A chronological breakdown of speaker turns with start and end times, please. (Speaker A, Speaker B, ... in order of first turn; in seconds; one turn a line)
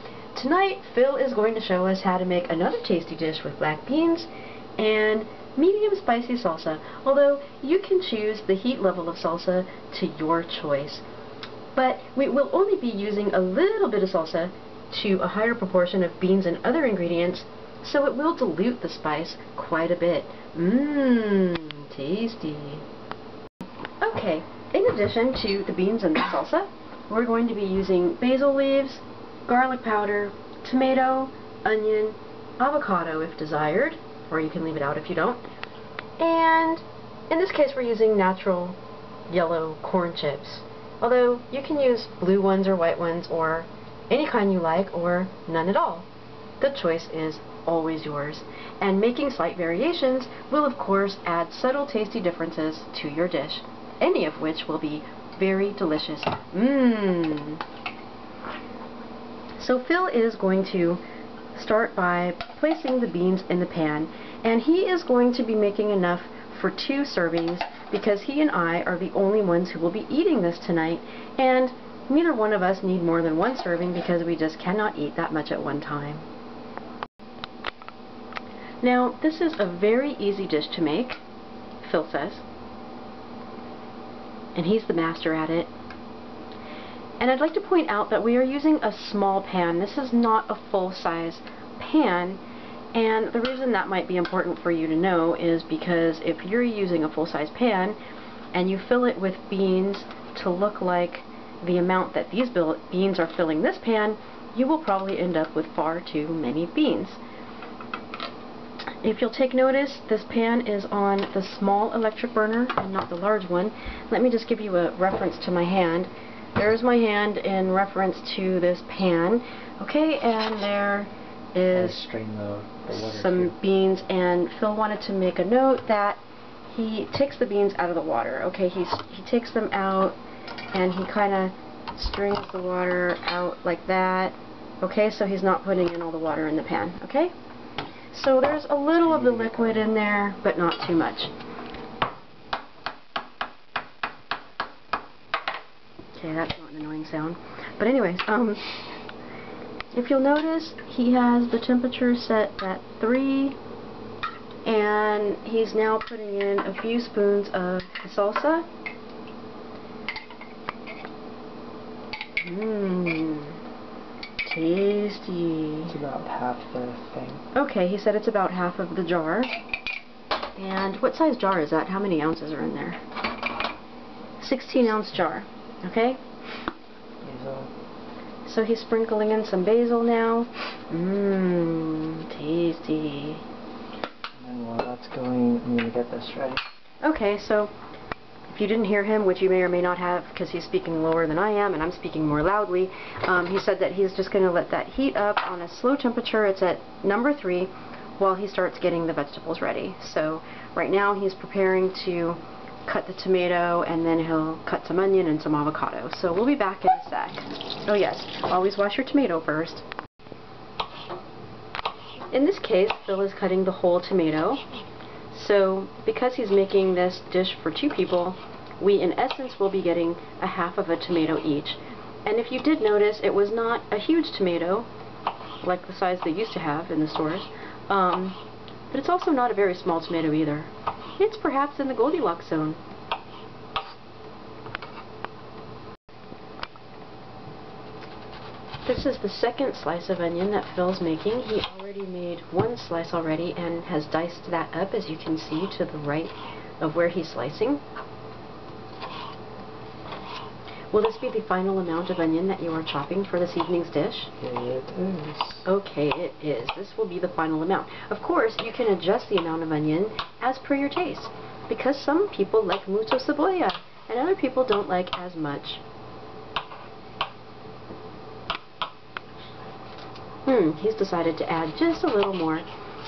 Speaker A: 0.3-11.0
Speaker A: 11.7-22.8
Speaker A: 24.0-35.4
Speaker A: 36.2-38.8
Speaker A: 39.3-46.1
Speaker A: 46.6-57.6
Speaker A: 59.5-61.0
Speaker A: 61.5-76.2
Speaker A: 78.8-81.2
Speaker A: 81.8-82.4
Speaker A: 84.5-85.7
Speaker A: 87.2-92.4
Speaker A: 92.9-98.0
Speaker A: 98.5-107.2
Speaker A: 109.0-122.0
Speaker B: 121.7-123.5
Speaker A: 122.9-130.2
Speaker A: 130.7-137.3
Speaker A: 138.1-141.3
Speaker B: 139.1-139.8
Speaker A: 146.1-148.9
Speaker A: 149.9-153.6
Speaker A: 154.6-158.7
Speaker A: 162.4-163.6
Speaker A: 164.4-165.9
Speaker B: 165.9-167.4
Speaker A: 167.5-169.5
Speaker A: 170.6-173.0
Speaker A: 174.4-176.2
Speaker B: 177.2-177.7
Speaker A: 178.4-183.4
Speaker B: 184.4-186.6
Speaker A: 187.0-187.7
Speaker A: 188.5-209.8
Speaker A: 212.3-214.6
Speaker A: 215.3-224.9
Speaker A: 225.6-228.4
Speaker A: 228.9-232.8
Speaker A: 238.8-247.8
Speaker A: 250.9-254.3
Speaker B: 254.4-255.7
Speaker A: 255.6-265.8
Speaker A: 270.4-272.6